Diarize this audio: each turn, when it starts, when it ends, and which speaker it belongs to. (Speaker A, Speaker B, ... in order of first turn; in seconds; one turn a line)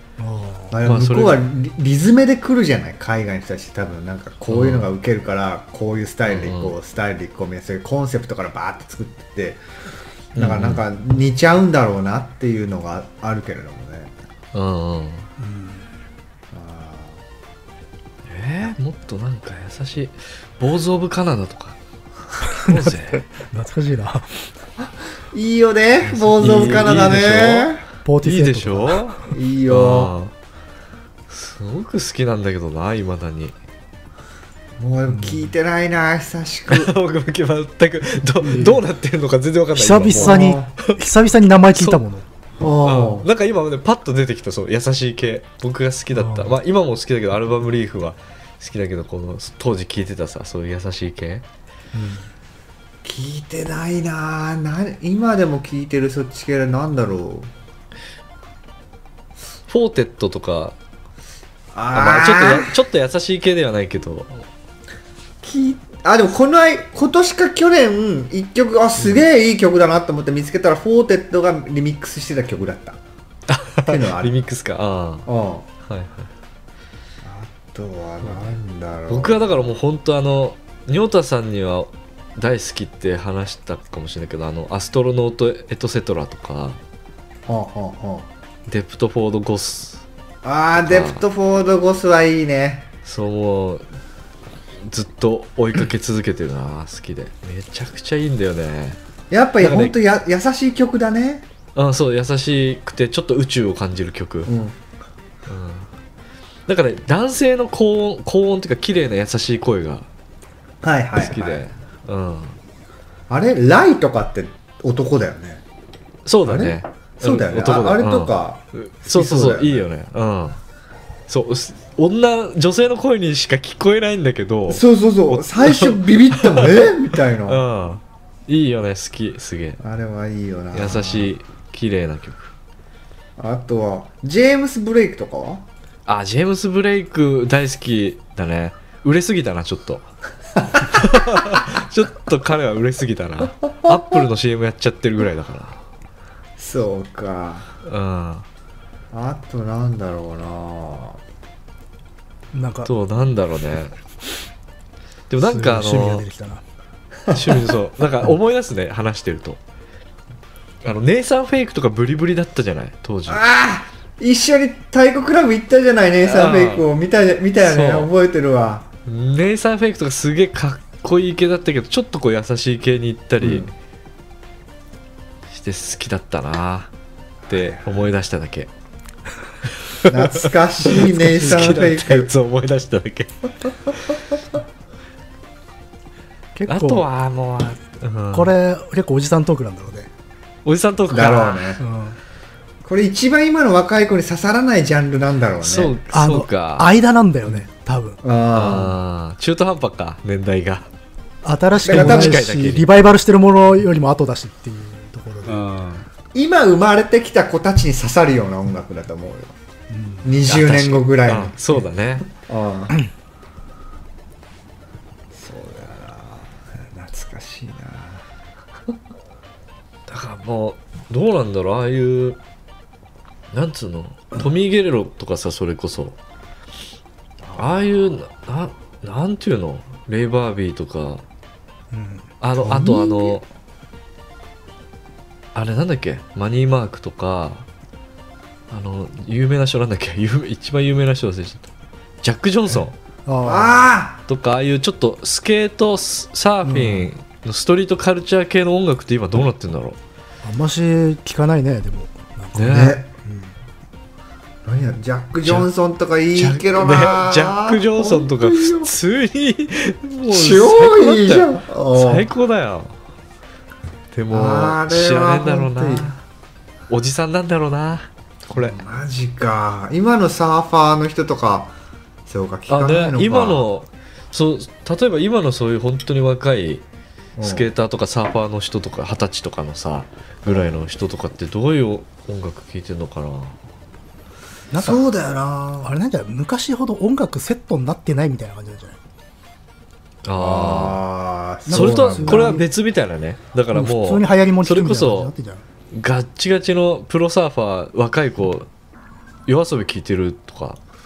Speaker A: 0.2-0.7
Speaker B: 0.7-9.6
Speaker C: 0.8-1.5
Speaker C: 4.5-4.9
Speaker C: 6.3-6.7
Speaker C: 10.3-10.8
Speaker B: 10.3-14.1
Speaker C: 14.5-15.3
Speaker A: 15.4-15.8
Speaker B: 16.5-17.2
Speaker C: 18.3-21.8
Speaker A: 22.4-24.4
Speaker C: 22.5-23.2
Speaker B: 25.3-27.8
Speaker C: 26.0-30.3
Speaker A: 28.0-29.1
Speaker B: 29.2-30.1
Speaker C: 31.3-33.5
Speaker B: 34.8-36.9
Speaker C: 36.7-41.0
Speaker A: 38.4-38.8
Speaker A: 39.7-42.2
Speaker B: 40.1-40.7
Speaker C: 41.7-42.0
Speaker B: 42.6-43.3
Speaker C: 42.8-51.4
Speaker A: 46.1-46.5
Speaker B: 52.0-52.2
Speaker B: 53.0-57.5
Speaker C: 59.7-60.7
Speaker B: 61.7-62.8
Speaker C: 61.9-64.4
Speaker B: 65.4-73.0
Speaker C: 73.5-75.3
Speaker B: 73.8-74.3
Speaker B: 75.2-75.7
Speaker C: 75.8-76.3
Speaker B: 77.2-79.6
Speaker C: 79.1-86.8
Speaker B: 87.5-88.3
Speaker C: 88.7-90.0
Speaker B: 90.4-92.9
Speaker C: 90.8-91.2
Speaker C: 93.0-93.8
Speaker C: 94.8-99.0
Speaker B: 99.3-101.5
Speaker C: 99.6-100.0
Speaker C: 101.7-104.5
Speaker B: 104.5-104.8
Speaker C: 105.5-105.9
Speaker C: 106.7-110.1
Speaker B: 110.8-111.6
Speaker C: 111.2-112.6
Speaker B: 113.3-115.6
Speaker C: 116.2-120.6
Speaker B: 116.4-119.8
Speaker C: 121.3-126.9
Speaker B: 124.7-127.6
Speaker C: 127.4-129.8
Speaker B: 129.8-131.3
Speaker C: 130.7-132.5
Speaker B: 133.4-135.6
Speaker C: 136.1-140.0
Speaker B: 140.6-141.1
Speaker C: 140.8-145.8
Speaker B: 143.8-144.2
Speaker B: 146.6-147.7
Speaker C: 147.8-148.4
Speaker B: 149.1-151.2
Speaker A: 152.5-152.9
Speaker C: 152.8-153.9
Speaker C: 155.3-156.2
Speaker A: 155.4-156.6
Speaker B: 157.3-157.7
Speaker C: 157.3-159.6
Speaker C: 160.8-163.4
Speaker B: 163.3-168.9
Speaker C: 166.2-166.8
Speaker C: 167.6-168.1
Speaker C: 169.1-173.7
Speaker B: 173.4-173.7
Speaker C: 175.5-176.9
Speaker B: 177.4-178.1
Speaker C: 177.5-178.7
Speaker C: 179.9-184.2
Speaker B: 180.0-182.3
Speaker A: 186.6-187.1
Speaker C: 186.7-188.5
Speaker A: 188.3-190.1
Speaker C: 190.6-191.8
Speaker B: 191.1-191.8
Speaker A: 191.8-192.2
Speaker B: 192.8-195.9
Speaker C: 195.6-196.9
Speaker A: 196.1-198.2
Speaker B: 198.2-199.0
Speaker C: 198.5-200.9
Speaker A: 201.4-206.0
Speaker C: 201.8-202.9
Speaker B: 201.8-202.4
Speaker B: 206.3-209.5
Speaker A: 209.9-210.3
Speaker B: 210.2-212.9
Speaker C: 210.5-212.3
Speaker B: 215.3-218.2
Speaker C: 220.1-222.4
Speaker C: 223.5-226.2
Speaker B: 227.4-227.9
Speaker C: 227.6-231.2
Speaker A: 231.9-232.3
Speaker C: 232.4-233.4
Speaker B: 232.6-233.3
Speaker C: 235.5-237.7
Speaker C: 238.7-241.7
Speaker C: 242.2-242.9
Speaker A: 243.2-243.9
Speaker B: 243.4-244.2
Speaker C: 244.3-250.0
Speaker A: 246.6-247.1
Speaker A: 250.4-253.5
Speaker C: 252.5-253.0
Speaker B: 252.7-253.1
Speaker B: 254.6-258.9
Speaker C: 256.3-262.9
Speaker B: 260.3-262.3
Speaker C: 264.1-266.1
Speaker B: 264.3-266.1
Speaker C: 266.9-268.8
Speaker B: 268.5-271.7
Speaker B: 272.3-273.7
Speaker C: 272.7-276.8
Speaker B: 277.4-277.7
Speaker C: 277.4-283.6
Speaker B: 280.4-280.8
Speaker A: 284.7-285.0
Speaker B: 284.8-285.9
Speaker A: 285.8-289.0
Speaker C: 290.2-291.0
Speaker B: 290.3-292.6
Speaker A: 291.7-292.7
Speaker C: 291.7-295.3
Speaker A: 293.7-295.6
Speaker C: 295.9-298.7
Speaker C: 299.5-300.8